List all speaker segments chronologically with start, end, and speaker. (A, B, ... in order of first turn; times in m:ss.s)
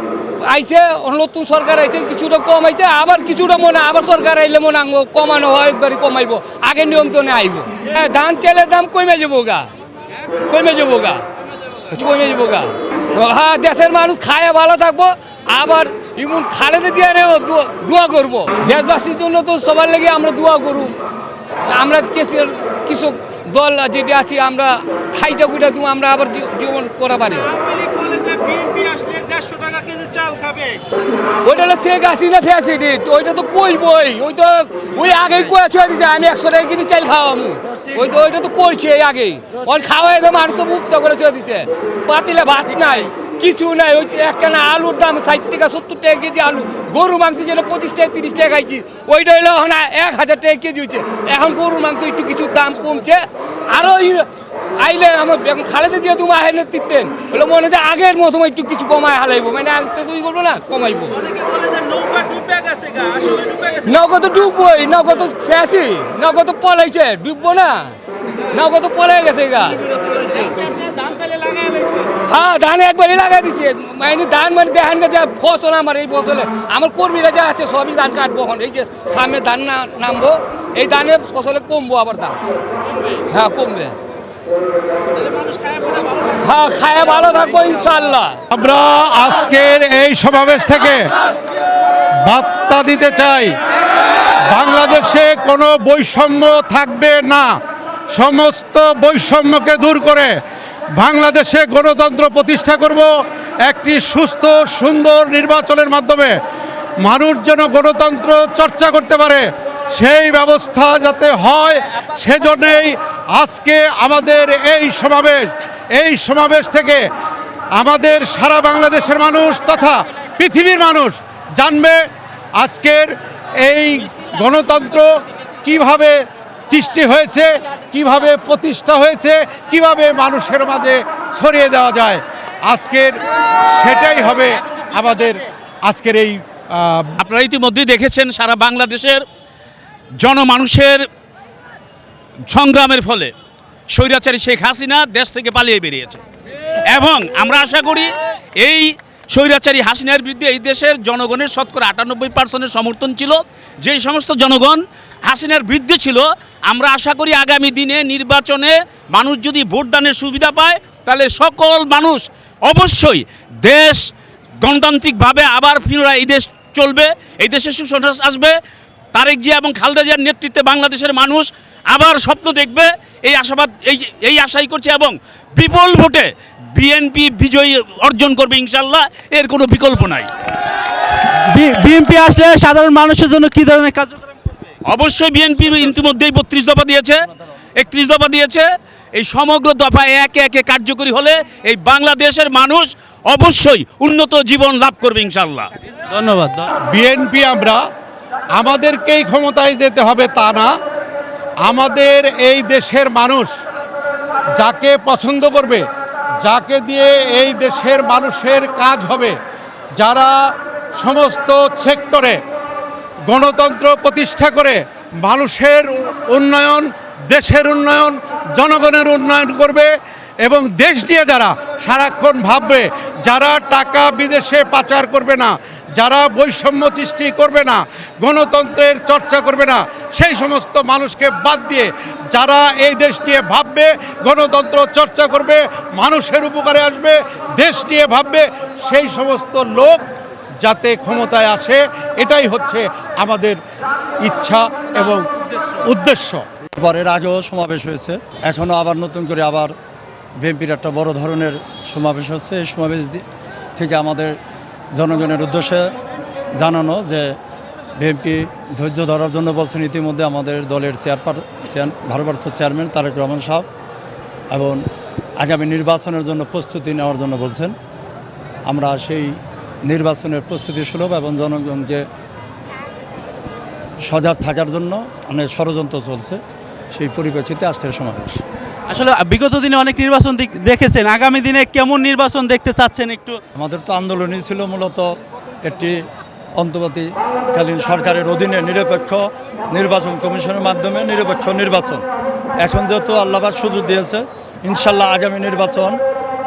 0:00.4-0:09.7 A
0:10.3-0:11.2 A
0:11.9-0:21.0 A
0:21.7-0:27.5 A
0:27.5-0:30.8 B
0:31.4-0:54.3 A
0:54.8-1:01.2 A
1:01.2-1:03.8 B
1:03.8-1:09.8 A
1:10.0-1:12.1 B
1:12.2-1:22.4 A
1:23.2-1:24.0 A
1:25.2-1:26.2 B
1:26.3-1:28.4 A
1:28.5-1:31.1 C
1:32.2-1:33.6 C
1:34.4-1:37.6 C
1:38.1-1:40.4 C
1:41.0-1:43.1 C
1:43.7-1:46.4 C
1:47.0-1:57.1 C
1:57.7-2:17.2 C
2:17.2-2:19.2 D
2:20.2-2:21.0 D
2:22.5-2:23.3 D
2:23.9-2:26.2 D
2:26.9-2:44.0 D
2:44.6-2:48.6 D
2:49.1-3:00.3 D
3:01.4-3:04.2 E
3:04.9-3:07.2 D
3:07.8-3:15.7 D
3:16.1-3:16.7 E
3:16.9-3:17.8 C
3:18.6-3:20.7 C
3:21.6-3:23.5 C
3:24.6-3:25.9 C
3:26.4-3:29.4 C
3:30.0-3:32.4 C
3:33.3-4:00.1 C
4:00.6-4:03.6 C
4:04.2-4:06.4 C
4:06.7-4:09.8 F
4:10.4-4:13.2 F
4:13.8-4:14.4 F
4:14.9-4:16.0 F
4:16.6-4:17.4 F
4:18.0-4:23.7 F
4:24.5-4:24.9 F
4:25.4-4:27.8 F
4:28.7-4:32.1 F
4:34.0-4:36.4 F
4:36.9-4:38.4 F
4:38.9-4:43.4 E
4:43.6-4:45.1 F
4:45.6-4:46.0 F
4:46.6-4:52.0 F
4:52.6-4:56.0 F